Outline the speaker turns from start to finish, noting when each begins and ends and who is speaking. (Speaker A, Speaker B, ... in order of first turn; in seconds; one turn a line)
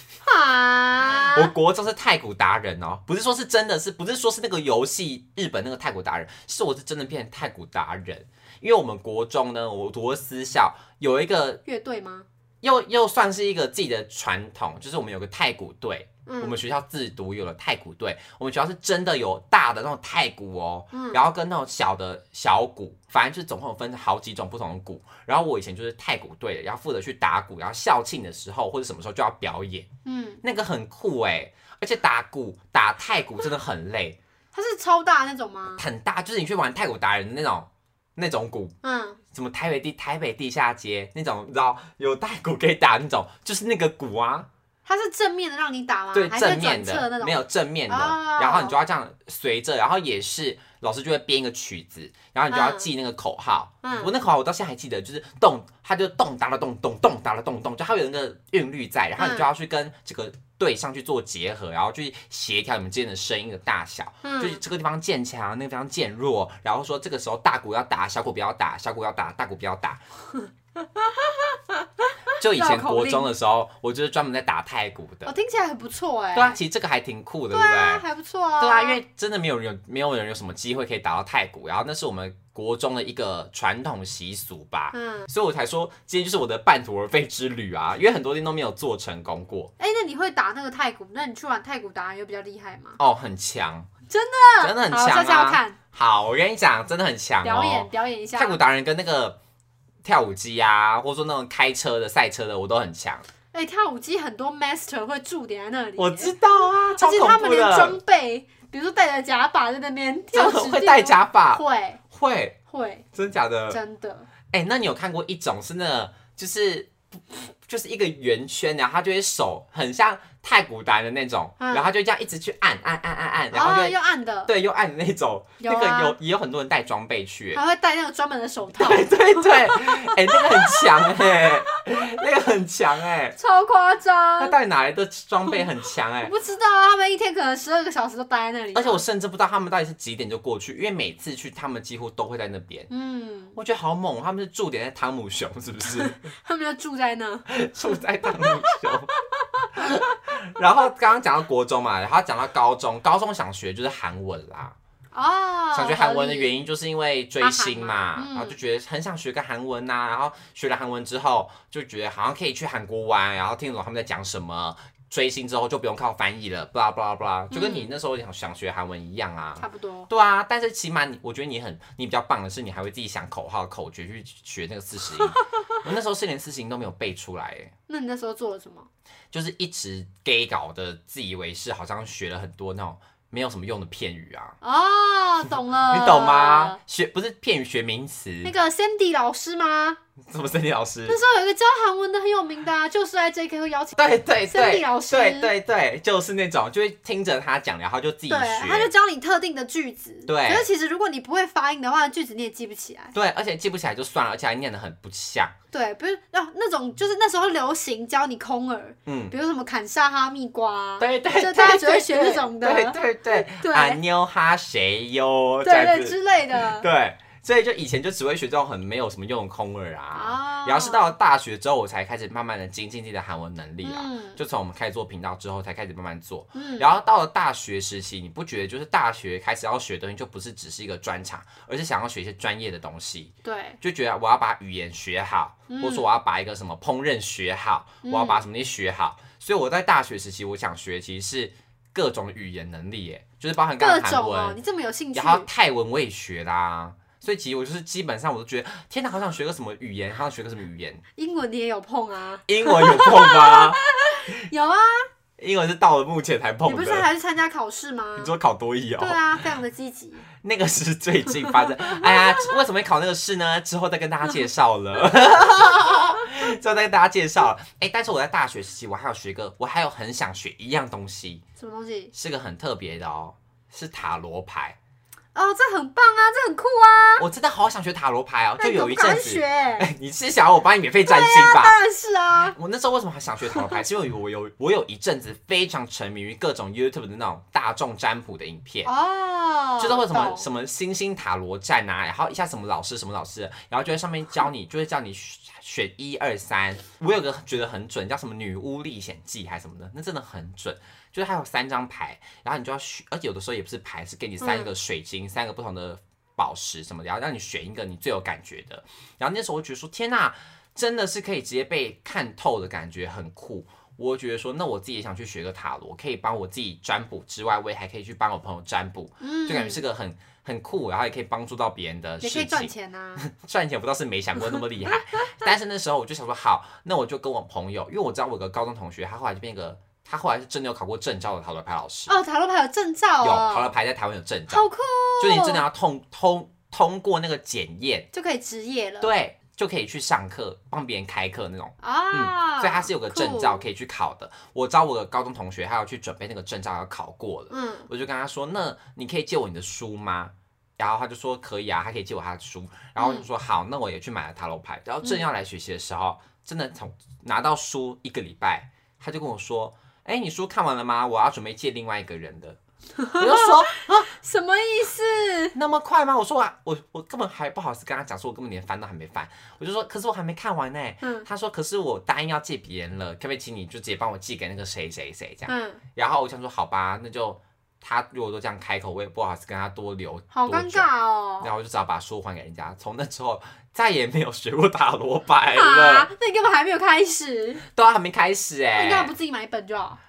Speaker A: 0.2-1.5
Speaker B: 1.1-11.6
Speaker A: 11.7-12.3
Speaker B: 12.6-29.9
Speaker A: 16.2-16.6
Speaker A: 20.9-21.2
Speaker A: 30.0-30.4
Speaker B: 30.4-34.2
Speaker A: 34.5-35.8
Speaker B: 35.7-38.7
Speaker A: 38.8-39.2
Speaker B: 39.3-44.5
Speaker A: 44.9-48.8
Speaker B: 46.1-70.0
Speaker A: 52.5-52.9
Speaker A: 53.8-54.1
Speaker A: 59.2-59.5
Speaker A: 64.2-64.6
Speaker A: 70.3-73.3
Speaker B: 72.4-75.3
Speaker A: 75.2-76.6
Speaker B: 76.3-78.0
Speaker A: 77.5-79.0
Speaker B: 78.6-89.7
Speaker A: 84.9-85.3
Speaker A: 89.8-93.0
Speaker B: 93.0-93.9
Speaker A: 94.1-95.8
Speaker B: 94.6-99.4
Speaker A: 97.4-98.6
Speaker B: 100.0-103.2
Speaker A: 103.5-112.0
Speaker B: 106.0-108.0
Speaker B: 110.3-112.6
Speaker A: 112.7-113.0
Speaker B: 113.1-113.8
Speaker A: 113.7-114.3
Speaker B: 114.5-123.9
Speaker A: 121.6-121.9
Speaker A: 123.5-124.5
Speaker B: 124.5-127.6
Speaker A: 125.6-126.2
Speaker A: 127.5-131.9
Speaker B: 128.8-133.4
Speaker A: 133.3-134.6
Speaker B: 134.4-136.3
Speaker A: 136.2-139.0
Speaker B: 138.7-142.9
Speaker A: 142.9-143.6
Speaker B: 143.5-146.2
Speaker A: 146.0-149.9
Speaker B: 147.5-149.1
Speaker B: 149.7-154.8
Speaker A: 155.1-156.5
Speaker B: 155.7-177.7
Speaker A: 157.4-158.6
Speaker A: 167.5-167.9
Speaker A: 169.6-170.1
Speaker A: 177.9-178.9
Speaker B: 179.3-184.6
Speaker A: 184.6-186.8
Speaker B: 185.9-188.5
Speaker A: 188.4-190.0
Speaker B: 190.2-191.2
Speaker A: 191.1-194.0
Speaker B: 193.9-198.9
Speaker A: 194.5-195.5
Speaker A: 198.3-203.1
Speaker B: 200.2-200.7
Speaker B: 203.1-205.5
Speaker A: 205.7-214.0
Speaker B: 209.1-209.3
Speaker B: 211.0-244.6
Speaker A: 215.6-216.8
Speaker A: 220.1-221.1
Speaker A: 223.8-224.4
Speaker A: 226.5-226.9
Speaker A: 233.4-233.8
Speaker A: 235.7-236.1
Speaker A: 238.0-238.5
Speaker A: 243.8-245.5
Speaker B: 245.1-251.0
Speaker A: 251.2-255.1
Speaker B: 252.5-253.8
Speaker B: 255.4-257.1
Speaker A: 256.6-258.3
Speaker B: 258.1-259.4
Speaker A: 259.0-260.3
Speaker B: 260.4-271.4
Speaker A: 261.4-262.6
Speaker A: 271.6-272.1
Speaker B: 272.1-274.8
Speaker A: 275.3-277.2
Speaker B: 277.2-281.8
Speaker A: 278.6-279.9
Speaker A: 281.0-282.6
Speaker B: 282.5-288.9
Speaker A: 288.8-290.4
Speaker B: 289.8-332.1
Speaker A: 304.4-304.7
Speaker A: 319.2-319.8
Speaker A: 322.2-323.2
Speaker A: 332.1-333.7
Speaker B: 333.2-334.7
Speaker A: 334.5-335.6
Speaker B: 335.2-338.1
Speaker A: 338.1-339.1
Speaker B: 339.0-362.6
Speaker A: 341.8-343.6
Speaker A: 347.5-347.9
Speaker A: 353.0-353.3
Speaker A: 363.0-365.6
Speaker B: 363.1-364.1
Speaker B: 365.5-380.9
Speaker A: 371.0-371.3
Speaker A: 375.5-375.8
Speaker A: 380.3-381.5
Speaker B: 381.4-386.1
Speaker A: 385.5-387.6
Speaker B: 387.7-389.1
Speaker A: 388.7-390.0